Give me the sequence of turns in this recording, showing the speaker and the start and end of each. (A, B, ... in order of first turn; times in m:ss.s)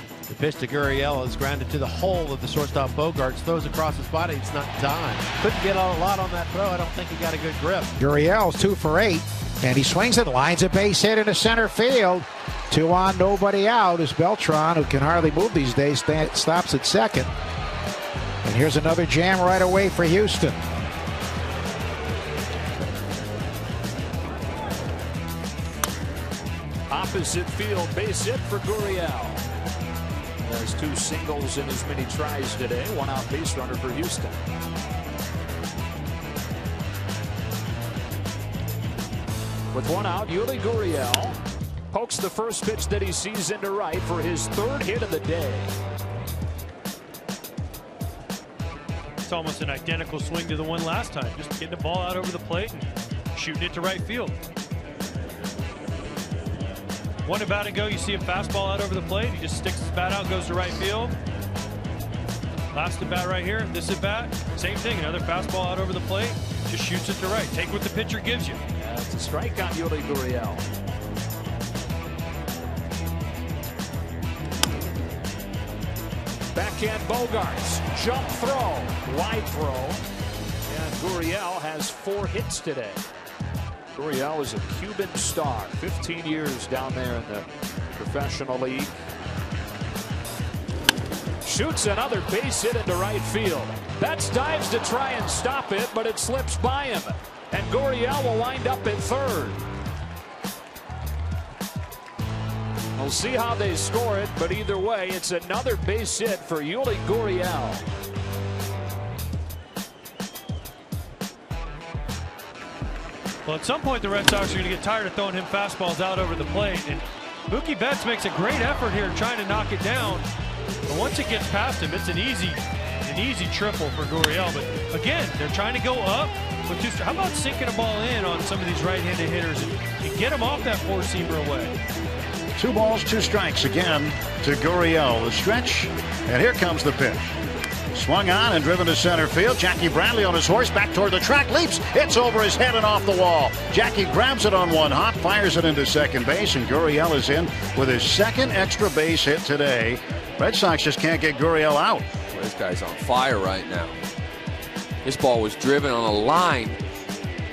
0:00.3-0:07.9 A
0:08.0-0:17.3 B
0:18.4-0:20.6 B
0:26.9-0:29.4 C
0:30.4-0:34.4 C
0:39.7-0:41.4 C
0:41.9-0:45.7 C
0:49.2-0:54.3 D
0:57.2-1:01.1 D
1:02.7-1:08.6 D
1:08.8-1:10.6 C
1:16.5-1:20.0 C
1:20.6-1:23.0 C
1:23.9-1:28.9 C
1:31.4-1:39.6 C
1:43.0-1:47.8 C
1:53.4-2:00.2 D
2:00.9-2:11.7 D
2:12.6-2:17.3 E
2:17.9-2:32.0 E
2:32.3-2:33.9 F
2:35.0-2:36.8 F